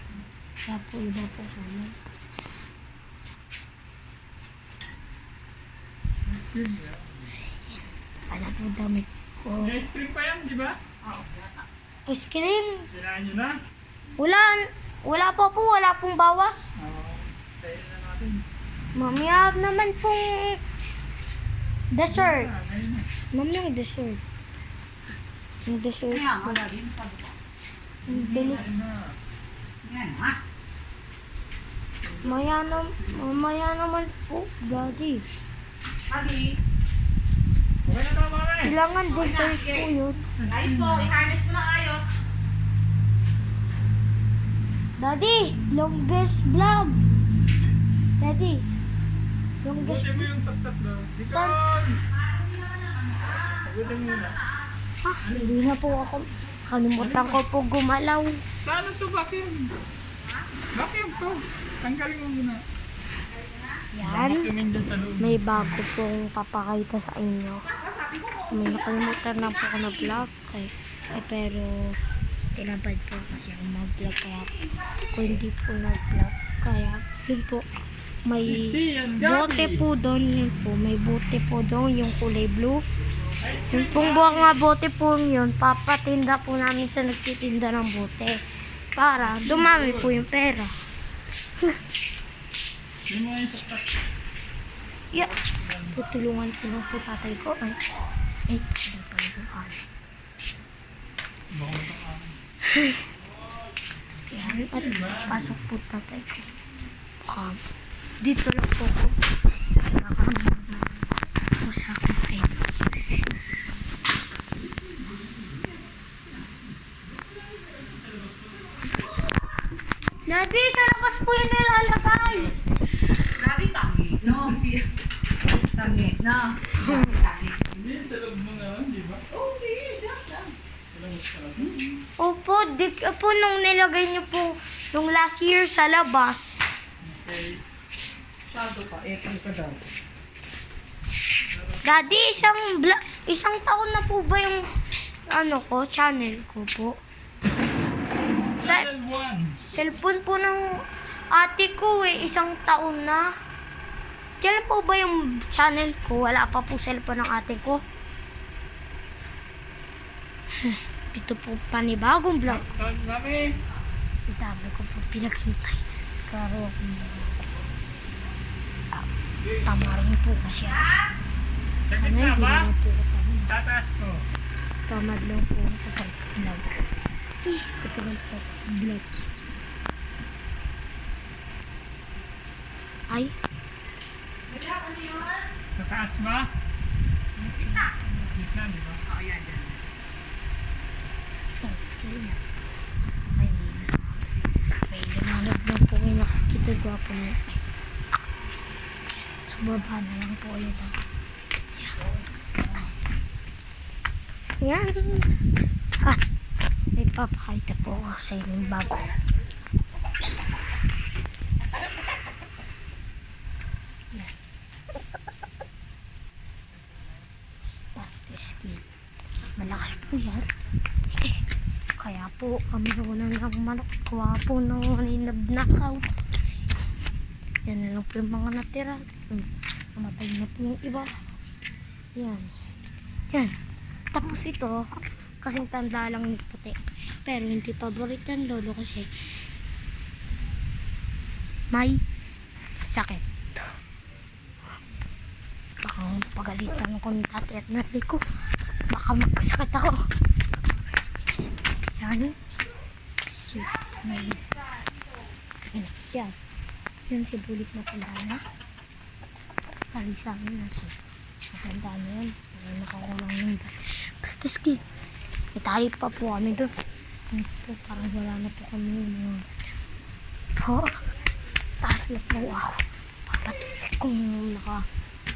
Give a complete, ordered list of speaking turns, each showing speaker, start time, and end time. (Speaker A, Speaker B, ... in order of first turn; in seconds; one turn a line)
Speaker A: 0.7-1.9
Speaker B: 6.3-7.3
Speaker A: 8.3-9.7
Speaker B: 9.6-10.8
Speaker C: 11.0-11.7
Speaker A: 12.1-12.9
Speaker B: 12.9-13.6
Speaker A: 14.2-16.7
Speaker B: 16.8-18.4
Speaker A: 18.9-20.6
Speaker A: 21.9-22.5
Speaker B: 22.1-23.1
Speaker A: 23.3-24.2
Speaker A: 25.7-26.6
Speaker C: 26.1-27.4
Speaker A: 28.1-28.7
Speaker B: 28.1-29.1
Speaker C: 29.8-30.4
Speaker B: 32.0-33.2
Speaker A: 32.2-35.2
Speaker C: 36.1-36.5
Speaker B: 37.9-38.8
Speaker A: 38.6-40.3
Speaker C: 39.1-39.9
Speaker B: 40.4-41.2
Speaker C: 40.5-42.1
Speaker A: 45.0-47.1
Speaker A: 48.2-48.7
Speaker A: 49.6-50.3
Speaker B: 49.8-52.0
Speaker A: 51.3-51.6
Speaker C: 52.1-53.7
Speaker B: 53.6-54.4
Speaker A: 55.0-58.4
Speaker B: 55.2-55.6
Speaker B: 57.0-57.4
Speaker B: 58.6-59.7
Speaker C: 60.2-60.5
Speaker B: 60.7-62.6
Speaker C: 63.3-63.8
Speaker A: 63.9-64.5
Speaker B: 64.0-65.8
Speaker A: 65.2-67.7
Speaker C: 67.6-69.8
Speaker A: 68.5-72.0
Speaker A: 72.6-74.5
Speaker A: 75.1-77.7
Speaker A: 78.3-82.8
Speaker B: 78.4-79.8
Speaker B: 83.4-84.6
Speaker A: 83.7-88.4
Speaker A: 89.0-90.7
Speaker B: 89.2-90.2
Speaker B: 93.1-94.0
Speaker B: 95.2-96.0
Speaker A: 95.9-97.8
Speaker A: 98.5-99.8
Speaker B: 101.5-102.4
Speaker A: 102.7-103.0
Speaker A: 104.3-106.5
Speaker B: 104.3-105.6
Speaker A: 107.2-107.6
Speaker A: 108.2-109.2
Speaker A: 109.9-111.0
Speaker A: 111.6-112.7
Speaker B: 117.2-119.2
Speaker A: 120.3-122.8
Speaker B: 122.1-122.7
Speaker C: 123.4-124.9
Speaker C: 125.5-127.6
Speaker A: 126.8-127.2
Speaker B: 127.7-129.2
Speaker C: 129.3-130.6
Speaker B: 130.9-131.8
Speaker A: 132.2-136.7
Speaker B: 137.0-137.6
Speaker C: 138.5-139.8
Speaker B: 141.6-141.8
Speaker A: 141.8-144.7
Speaker A: 145.3-147.0
Speaker B: 148.6-149.6
Speaker A: 149.7-150.8
Speaker A: 151.3-153.3
Speaker A: 154.4-157.8
Speaker A: 160.6-162.7
Speaker B: 162.5-163.5
Speaker A: 164.3-167.4
Speaker A: 169.6-170.9
Speaker B: 171.9-172.7
Speaker A: 172.0-173.5
Speaker B: 173.5-174.2
Speaker A: 174.9-176.8
Speaker A: 177.4-179.1
Speaker A: 183.1-183.4
Speaker C: 184.5-185.5
Speaker B: 185.8-186.5
Speaker A: 187.4-188.4
Speaker B: 188.3-189.0
Speaker C: 189.1-189.8
Speaker A: 191.6-192.4
Speaker A: 193.3-194.3
Speaker A: 194.9-197.6
Speaker A: 199.5-201.0
Speaker A: 204.6-205.3
Speaker A: 207.0-209.2
Speaker A: 217.9-218.8
Speaker A: 219.6-220.5
Speaker A: 222.0-226.1
Speaker A: 227.7-231.1
Speaker A: 232.2-232.5
Speaker A: 234.1-239.1
Speaker A: 241.7-242.0
Speaker A: 242.8-243.7
Speaker A: 245.8-248.2
Speaker A: 248.9-250.0
Speaker A: 252.0-252.4
Speaker A: 253.3-254.5
Speaker A: 255.7-256.4
Speaker A: 257.1-258.4
Speaker A: 259.9-264.8
Speaker A: 265.6-266.7
Speaker A: 267.3-269.7
Speaker A: 270.6-271.0
Speaker A: 271.8-274.9